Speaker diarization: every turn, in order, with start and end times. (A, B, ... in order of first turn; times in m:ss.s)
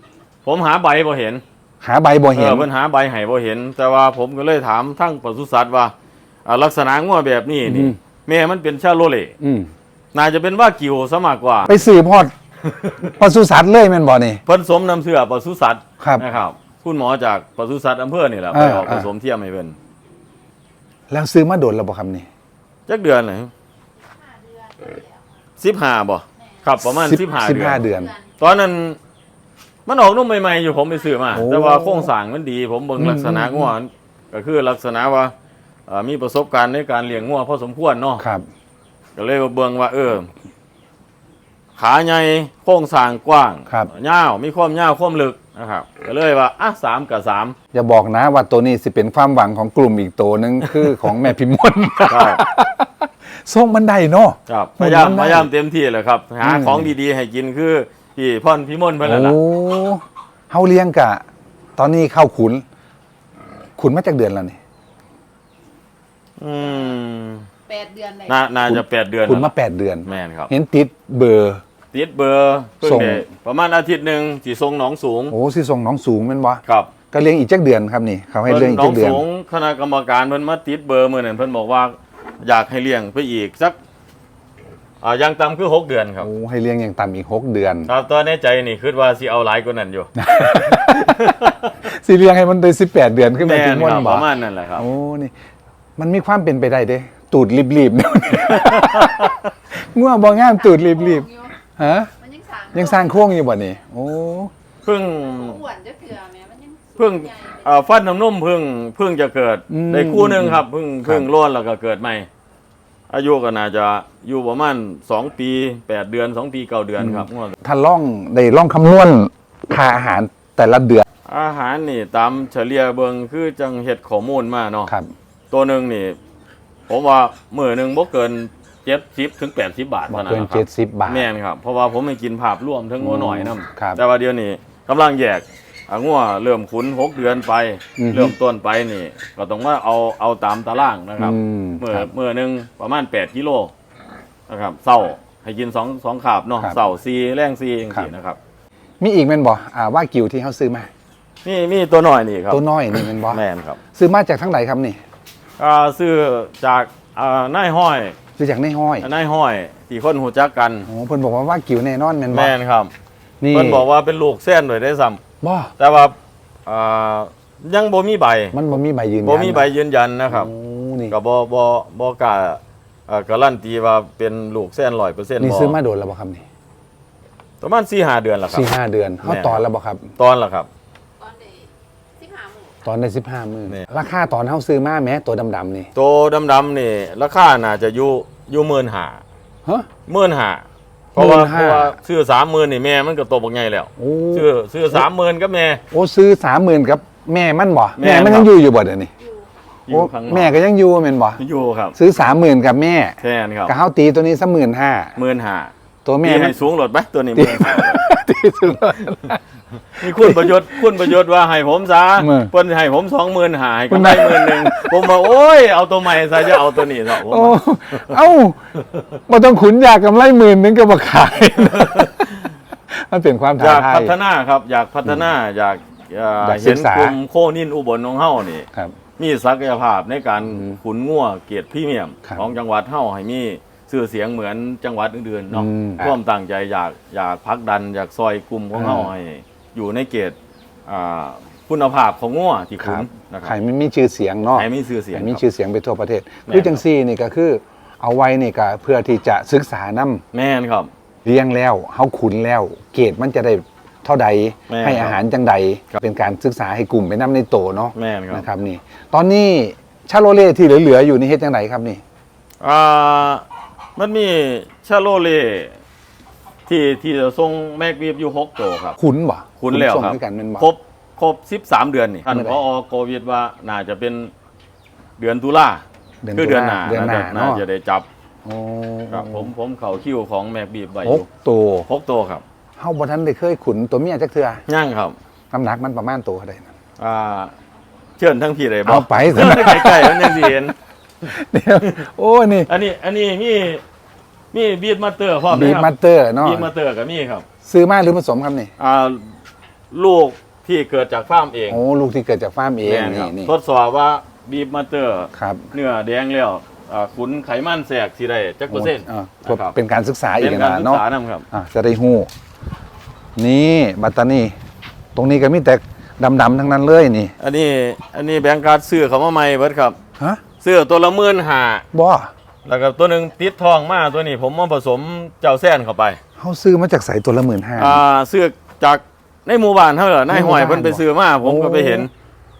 0:00.4-0:01.4 A
0:01.8-0:02.7 B
0:02.3-0:05.9 A
0:06.4-0:09.3 A
0:07.6-0:08.0 B
0:09.4-0:09.7 B
0:10.1-0:11.8 A
0:11.6-0:12.3 B
0:12.6-0:13.2 A
0:13.2-0:14.4 B
0:14.4-0:19.8 A
0:18.5-0:19.1 B
0:21.1-0:22.3 B
0:22.9-0:23.5 A
0:24.0-0:25.2 C
0:25.6-0:27.8 A
0:26.4-0:26.6 C
0:26.8-0:28.1 B
0:27.8-0:28.3 C
0:28.4-0:29.0 A
0:29.8-0:35.3 A
0:31.3-0:32.1 B
0:33.0-0:33.7 B
0:35.9-0:38.2 A
0:38.2-0:38.4 B
0:39.2-0:40.3 A
0:41.8-0:47.6 A
0:47.7-0:55.5 B
0:52.1-0:52.4 A
0:54.5-0:59.4 A
0:56.4-0:56.9 B
0:59.0-1:01.2 B
1:01.8-1:02.6 B
1:03.8-1:04.6 B
1:06.4-1:07.4 A
1:07.7-1:08.4 C
1:08.3-1:09.5 A
1:08.7-1:11.6 B
1:10.0-1:10.5 A
1:11.9-1:15.3 A
1:12.8-1:13.2 B
1:15.3-1:19.2 B
1:16.6-1:16.9 A
1:18.4-1:23.8 A
1:25.0-1:26.3 A
1:26.2-1:27.9 B
1:27.9-1:31.7 A
1:30.2-1:35.3 B
1:33.4-1:34.8 A
1:36.0-1:42.1 B
1:38.5-1:39.5 A
1:40.3-1:41.6 C
1:42.2-1:43.3 C
1:42.7-1:44.5 B
1:44.8-1:45.6 A
1:45.1-1:48.0 C
1:47.0-1:52.3 A
1:49.7-1:51.3 B
1:53.1-1:57.5 A
1:57.0-2:01.0 B
2:01.2-2:04.9 A
2:05.5-2:06.2 A
2:06.9-2:23.7 A
2:10.1-2:11.3 B
2:13.0-2:14.0 B
2:18.0-2:18.3 B
2:21.2-2:22.1 B
2:24.5-2:28.4 A
2:29.0-2:30.9 B
2:31.4-2:33.8 A
2:32.5-2:33.4 B
2:33.9-2:35.0 B
2:35.6-2:38.2 A
2:38.4-2:39.0 B
2:39.0-2:40.9 A
2:40.9-2:42.5 B
2:42.3-2:42.9 A
2:43.4-2:43.8 B
2:43.5-2:45.2 A
2:45.4-2:45.7 B
2:45.8-2:48.6 A
2:48.5-2:49.7 B
2:49.2-2:50.5 A
2:50.3-2:51.1 B
2:51.1-2:55.8 A
2:55.4-2:56.4 B
2:57.6-2:58.7 A
2:58.5-3:00.1 B
2:59.2-2:59.6 A
3:00.2-3:00.7 A
3:01.2-3:02.8 C
3:02.8-3:05.9 B
3:05.9-3:09.2 A
3:10.1-3:15.8 A
3:11.2-3:12.0 B
3:14.0-3:15.0 B
3:15.9-3:19.1 B
3:18.0-3:18.5 A
3:19.9-3:20.6 A
3:19.9-3:21.4 B
3:21.4-3:22.0 A
3:21.9-3:25.1 B
3:23.2-3:23.7 A
3:25.2-3:25.7 A
3:26.0-3:26.6 B
3:26.2-3:28.0 A
3:27.3-3:29.4 B
3:29.9-3:38.1 A
3:30.0-3:31.1 B
3:32.2-3:32.5 B
3:33.9-3:35.1 B
3:36.4-3:38.6 B
3:39.3-3:42.2 B
3:41.6-3:42.4 A
3:42.9-3:44.1 B
3:43.6-3:48.7 A
3:46.4-3:47.2 B
3:49.2-4:00.4 A
3:55.5-3:56.1 B
3:58.7-3:59.1 B
4:00.9-4:03.5 A
4:02.8-4:10.2 B
4:04.5-4:05.4 A
4:06.5-4:06.8 A
4:10.3-4:10.9 A
4:11.2-4:22.0 B
4:14.7-4:15.2 A
4:17.9-4:18.5 A
4:22.6-4:23.4 A
4:24.0-4:25.8 A
4:26.7-4:29.0 A
4:29.0-4:30.7 B
4:29.6-4:34.3 A
4:32.3-4:32.6 B
4:35.2-4:35.8 A
4:36.2-4:37.6 B
4:36.3-4:38.0 A
4:38.4-4:39.5 B
4:39.1-4:41.3 A
4:41.0-4:41.8 B
4:41.8-4:42.4 A
4:42.8-4:44.6 B
4:44.7-4:45.2 A
4:45.5-4:46.7 B
4:47.0-4:47.5 A
4:48.2-4:50.7 A
4:48.8-4:50.6 B
4:51.2-4:52.7 B
4:52.7-4:53.8 A
4:54.5-4:55.9 A
4:55.5-4:56.7 B
4:56.4-4:57.4 A
4:57.6-4:58.7 B
4:58.8-4:59.3 A
4:59.9-5:01.8 A
5:01.7-5:03.5 B
5:02.8-5:09.8 A
5:05.3-5:05.7 B
5:08.7-5:12.3 B
5:10.4-5:11.4 A
5:13.4-5:14.5 B
5:15.1-5:17.3 B
5:17.4-5:20.0 A
5:20.6-5:21.8 A
5:21.9-5:22.3 B
5:22.6-5:26.2 A
5:26.4-5:28.0 B
5:27.8-5:32.1 A
5:30.3-5:32.1 B